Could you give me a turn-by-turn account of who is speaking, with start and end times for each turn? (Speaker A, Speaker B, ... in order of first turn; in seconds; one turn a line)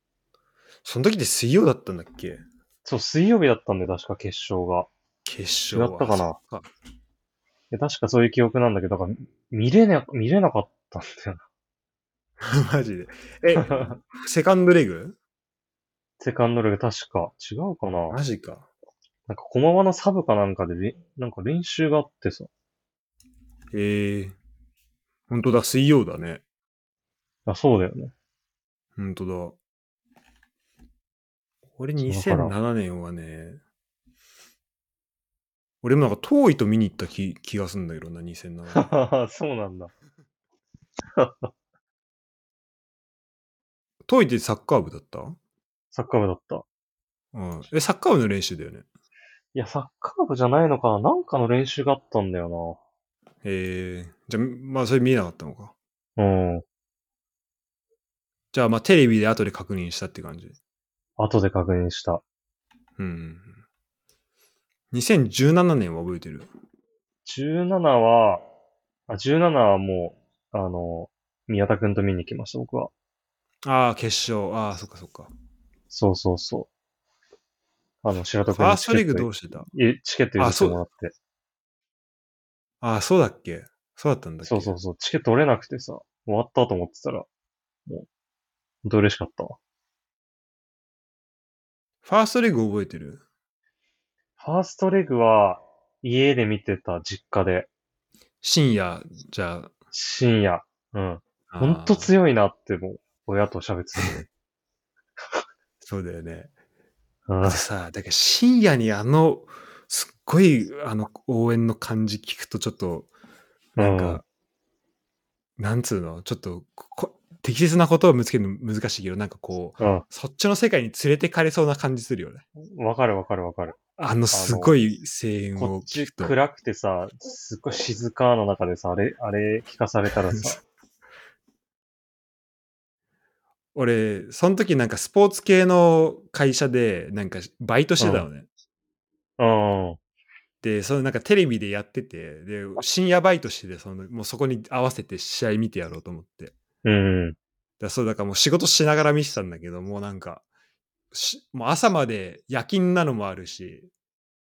Speaker A: 0.8-2.4
Speaker B: 2.8-4.9
Speaker A: 5.2-6.7
Speaker B: 5.7-6.4
Speaker B: 7.7-11.4
Speaker A: 12.4-15.2
Speaker B: 13.6-13.9
Speaker B: 16.2-18.2
Speaker A: 18.1-18.7
Speaker B: 19.3-22.5
Speaker A: 23.7-24.4
Speaker A: 25.3-26.4
Speaker B: 27.5-28.1
Speaker A: 29.0-29.6
Speaker A: 31.8-33.6
Speaker B: 32.0-32.5
Speaker A: 35.8-38.9
Speaker B: 38.7-39.9
Speaker B: 41.2-41.5
Speaker A: 44.0-45.4
Speaker B: 45.9-46.6
Speaker A: 47.3-48.9
Speaker B: 49.5-52.8
Speaker A: 53.4-55.7
Speaker B: 56.2-56.6
Speaker A: 58.5-60.5
Speaker B: 61.2-62.2
Speaker A: 63.0-63.5
Speaker A: 64.9-66.5
Speaker B: 67.2-68.4
Speaker B: 69.1-72.9
Speaker A: 73.6-75.3
Speaker B: 75.9-76.7
Speaker B: 78.0-81.1
Speaker A: 78.5-79.7
Speaker A: 80.4-80.8
Speaker A: 82.8-84.8
Speaker B: 84.4-87.3
Speaker B: 88.8-89.6
Speaker A: 92.0-93.2
Speaker B: 94.4-97.7
Speaker A: 98.4-99.7
Speaker B: 99.9-104.2
Speaker A: 101.5-102.1
Speaker A: 104.0-104.2
Speaker A: 105.8-106.5
Speaker B: 107.3-107.6
Speaker A: 107.4-113.1
Speaker A: 113.8-114.2
Speaker B: 113.8-114.2
Speaker A: 115.6-122.4
Speaker B: 119.8-120.0
Speaker B: 122.6-123.8
Speaker A: 124.0-126.3
Speaker B: 124.3-124.8
Speaker B: 125.5-130.6
Speaker A: 133.7-138.5
Speaker B: 138.0-138.3
Speaker B: 139.4-140.0
Speaker A: 140.6-146.5
Speaker B: 146.8-147.4
Speaker A: 147.8-150.4
Speaker A: 151.1-153.9